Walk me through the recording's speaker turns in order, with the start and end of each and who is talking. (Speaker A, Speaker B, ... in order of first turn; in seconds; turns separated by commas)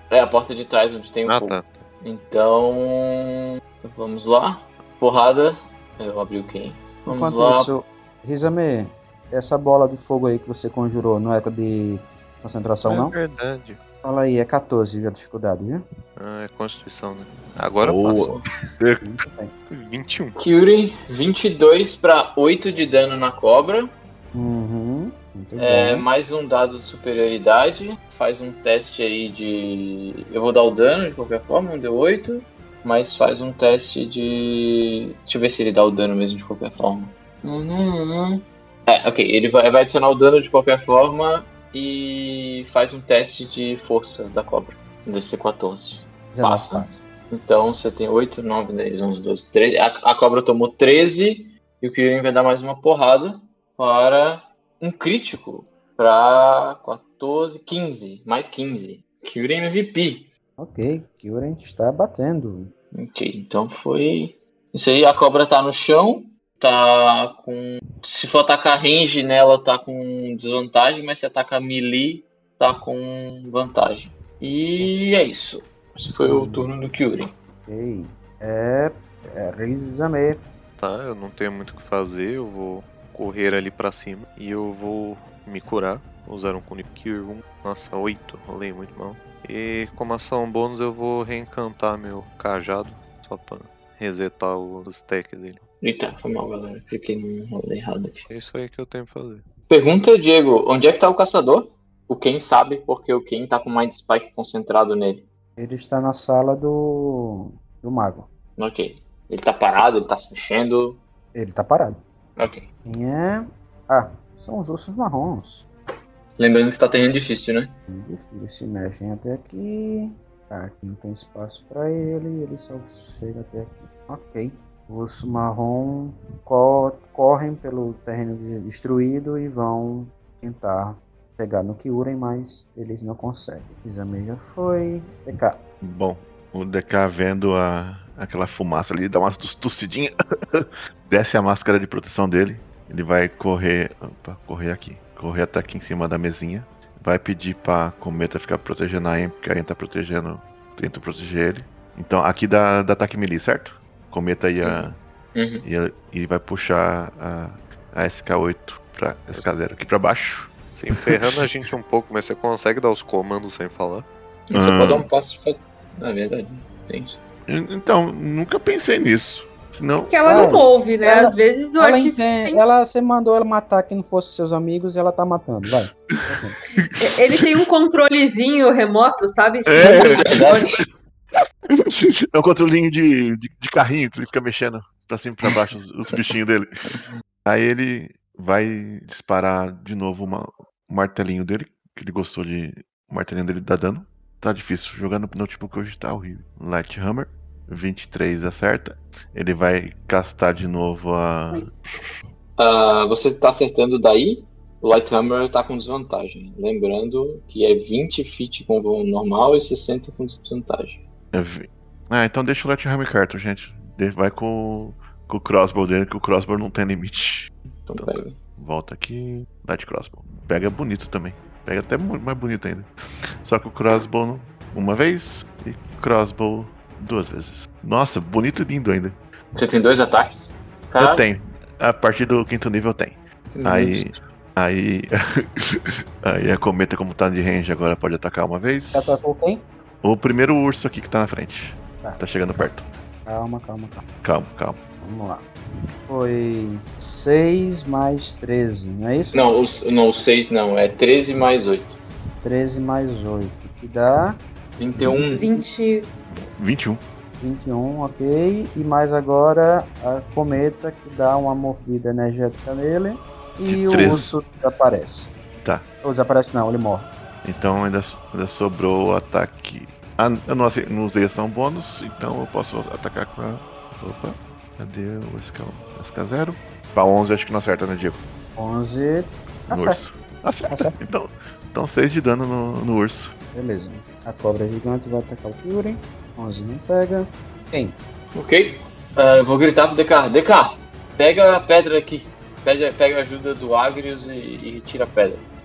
Speaker A: 0.1-7.7, Speaker B: 1.3-1.7, Speaker C: 7.1-13.2, Speaker B: 12.8-13.8, Speaker C: 14.0-15.8, Speaker B: 16.2-18.4, Speaker D: 17.8-19.0, Speaker C: 19.0-19.5, Speaker B: 19.7-20.4, Speaker A: 20.4-23.9, Speaker C: 24.3-26.1, Speaker A: 25.6-60.3, Speaker C: 46.3-47.0, Speaker C: 60.6-62.7, Speaker A: 62.9-77.3, Speaker C: 76.3-76.7, Speaker C: 77.7-80.4, Speaker B: 80.8-95.6, Speaker A: 95.8-98.3, Speaker B: 98.3-99.4, Speaker A: 99.7-105.3, Speaker C: 105.6-108.3, Speaker A: 108.6-111.0, Speaker C: 111.3-112.0, Speaker A: 112.4-112.7, Speaker C: 112.8-115.7, Speaker A: 116.4-117.7, Speaker C: 117.9-135.6, Speaker D: 135.8-155.0, Speaker A: 154.6-155.7, Speaker D: 155.6-161.4, Speaker B: 160.7-164.1, Speaker A: 164.5-167.2, Speaker D: 164.5-165.1, Speaker D: 167.5-170.7, Speaker E: 170.1-172.6, Speaker C: 170.2-176.6, Speaker D: 176.8-177.6, Speaker E: 177.0-180.7, Speaker D: 179.7-180.8, Speaker A: 180.2-180.8, Speaker D: 181.9-186.7, Speaker D: 187.4-202.1, Speaker A: 202.6-211.0, Speaker D: 211.3-222.9, Speaker A: 217.9-218.4, Speaker D: 223.4-229.2, Speaker A: 229.6-231.2, Speaker D: 231.0-239.2, Speaker A: 233.5-234.2, Speaker C: 238.9-239.6, Speaker D: 240.0-242.8, Speaker C: 242.0-242.7, Speaker C: 243.3-244.1, Speaker D: 244.2-244.8, Speaker C: 245.0-245.5, Speaker C: 246.1-249.5, Speaker A: 249.3-252.0, Speaker C: 252.4-254.4, Speaker A: 254.8-255.4, Speaker C: 255.1-255.7, Speaker E: 255.2-256.1, Speaker D: 256.6-257.0, Speaker C: 257.4-265.3, Speaker D: 263.7-264.3, Speaker C: 266.0-267.1, Speaker D: 267.4-278.2, Speaker C: 278.6-280.0, Speaker D: 279.7-283.3, Speaker C: 280.7-280.9, Speaker C: 283.5-288.0, Speaker A: 288.4-295.4